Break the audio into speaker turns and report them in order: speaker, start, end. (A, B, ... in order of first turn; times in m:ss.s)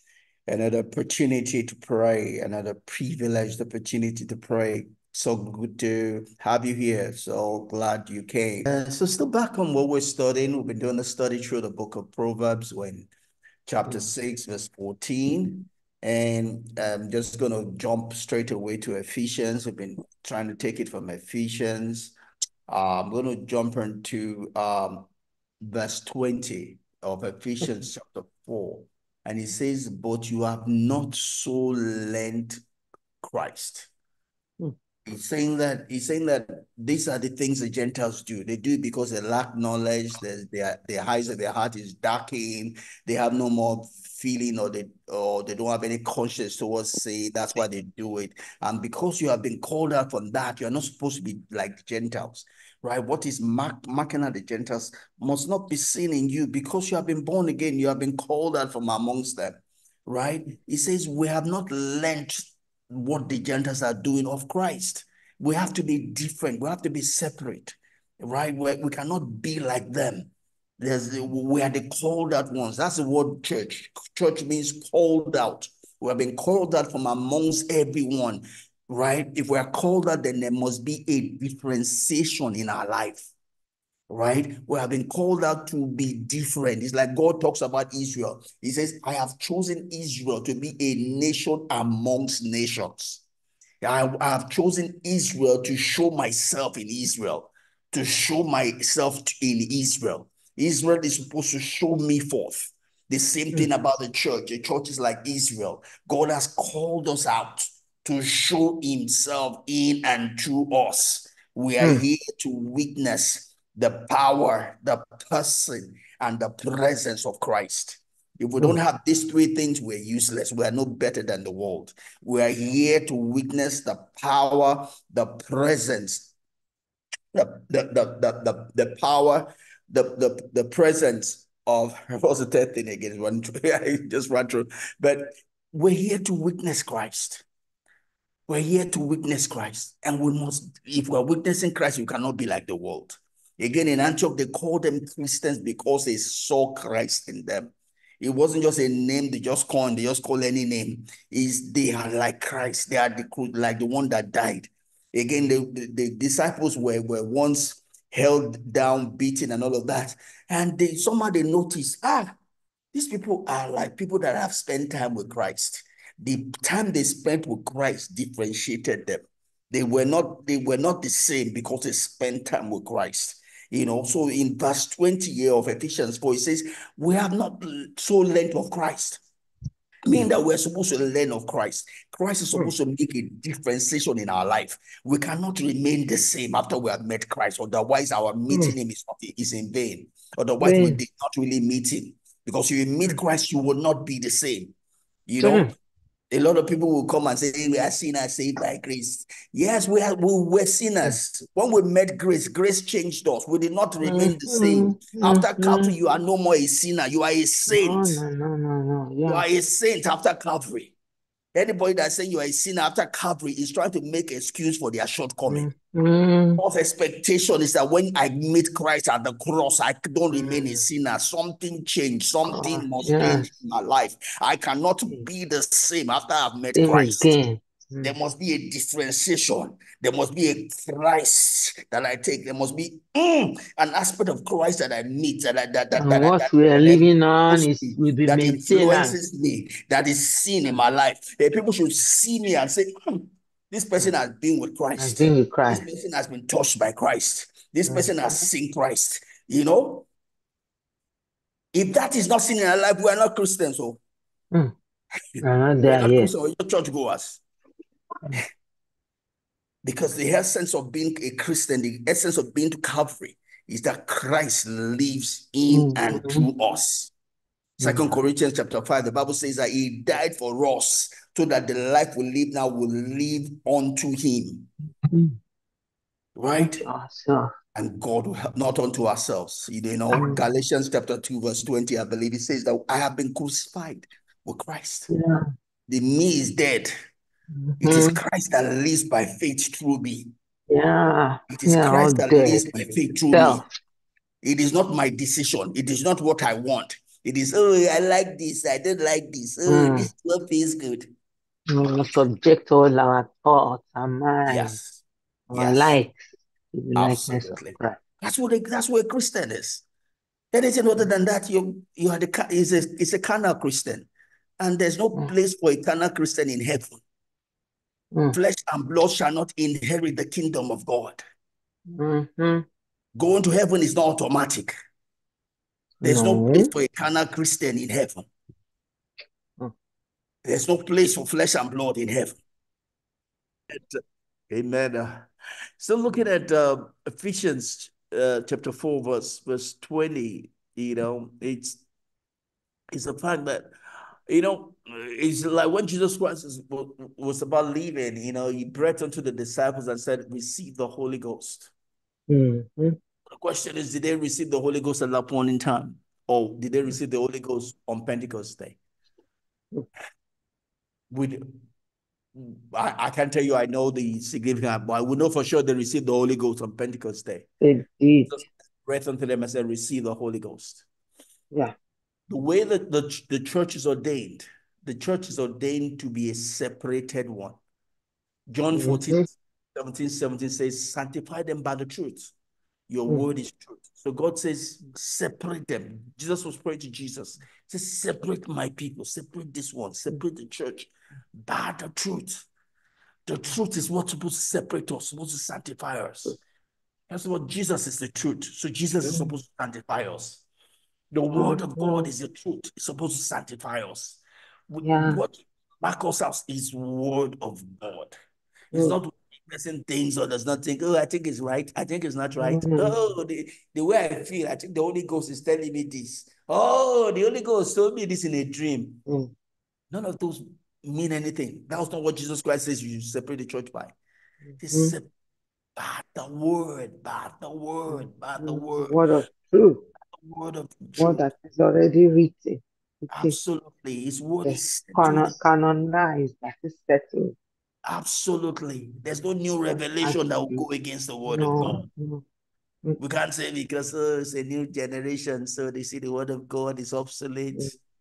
0:00.5-0:13.1 A
0:13.7-0:22.1 A
0:13.8-0:14.1 B
0:22.7-0:25.1 A
0:25.6-0:32.6 A
0:33.2-0:33.9 A
0:35.0-1:23.3 A
1:24.1-1:33.2 A
1:33.8-2:06.3 A
2:07.3-2:17.4 A
2:18.5-2:42.3 A
2:42.9-2:59.2 A
3:00.0-3:14.7 A
3:08.5-3:08.7 B
3:10.6-3:11.0 B
3:15.3-3:15.7 A
3:15.4-3:15.7 B
3:16.3-3:28.2 A
3:24.0-3:25.9 B
3:27.7-3:29.4 B
3:29.2-3:30.9 A
3:31.5-3:35.7 A
3:35.5-3:36.6 B
3:36.6-3:47.3 A
3:40.3-3:40.9 B
3:42.4-3:43.5 B
3:46.7-3:48.1 B
3:48.0-4:10.1 A
3:56.0-3:59.2 B
4:05.0-4:05.8 B
4:07.8-4:08.4 B
4:11.7-4:14.0 A
4:15.4-4:17.4 A
4:15.4-4:16.3 B
4:19.8-4:27.1 A
4:25.7-4:26.5 B
4:27.8-4:34.7 A
4:27.8-4:28.2 B
4:35.1-4:35.3 B
4:36.4-4:36.8 A
4:36.6-4:37.5 B
4:37.7-4:45.1 A
4:40.1-4:40.4 B
4:45.1-4:45.4 B
4:45.9-4:46.9 A
4:47.6-4:48.2 B
4:47.8-4:50.3 A
4:50.7-4:53.7 B
4:51.5-4:53.6 A
4:54.4-5:01.1 A
4:59.7-5:00.1 B
5:01.7-5:04.8 B
5:04.5-5:05.0 A
5:05.5-5:08.0 B
5:05.5-5:05.9 A
5:07.0-5:09.8 A
5:10.5-5:14.1 A
5:14.6-5:17.0 A
5:18.3-5:21.2 A
5:21.9-5:22.6 B
5:23.1-5:24.7 A
5:26.0-5:26.7 B
5:26.0-5:28.3 A
5:30.4-5:32.4 A
5:33.7-5:35.3 A
5:35.8-5:41.8 A
5:42.9-5:43.7 A
5:44.3-5:51.7 A
5:52.3-5:53.0 B
5:53.3-5:58.8 A
6:01.1-6:01.4 A
6:02.3-6:07.5 A
6:07.6-6:08.4 B
6:08.3-6:10.8 A
6:12.3-6:17.6 A
6:18.5-6:22.3 A
6:18.7-6:19.2 B
6:22.9-6:30.9 A
6:31.4-6:32.4 A
6:33.3-6:36.4 A
6:37.1-6:40.4 A
6:39.0-6:39.3 B
6:41.1-6:48.2 A
6:41.3-6:42.1 B
6:44.8-6:45.2 B
6:48.7-6:59.0 A
6:48.7-6:49.0 B
6:52.4-6:53.0 B
6:59.0-6:59.3 B
6:59.9-7:03.9 A
7:04.4-7:05.0 B
7:04.6-7:05.1 A
7:05.8-7:09.0 A
7:07.9-7:09.8 B
7:10.2-7:11.3 A
7:11.0-7:13.4 B
7:13.1-7:15.4 A
7:14.4-7:17.4 B
7:17.8-7:21.8 A
7:20.0-7:20.7 B
7:21.3-7:22.2 B
7:23.0-7:27.8 A
7:27.5-7:27.8 B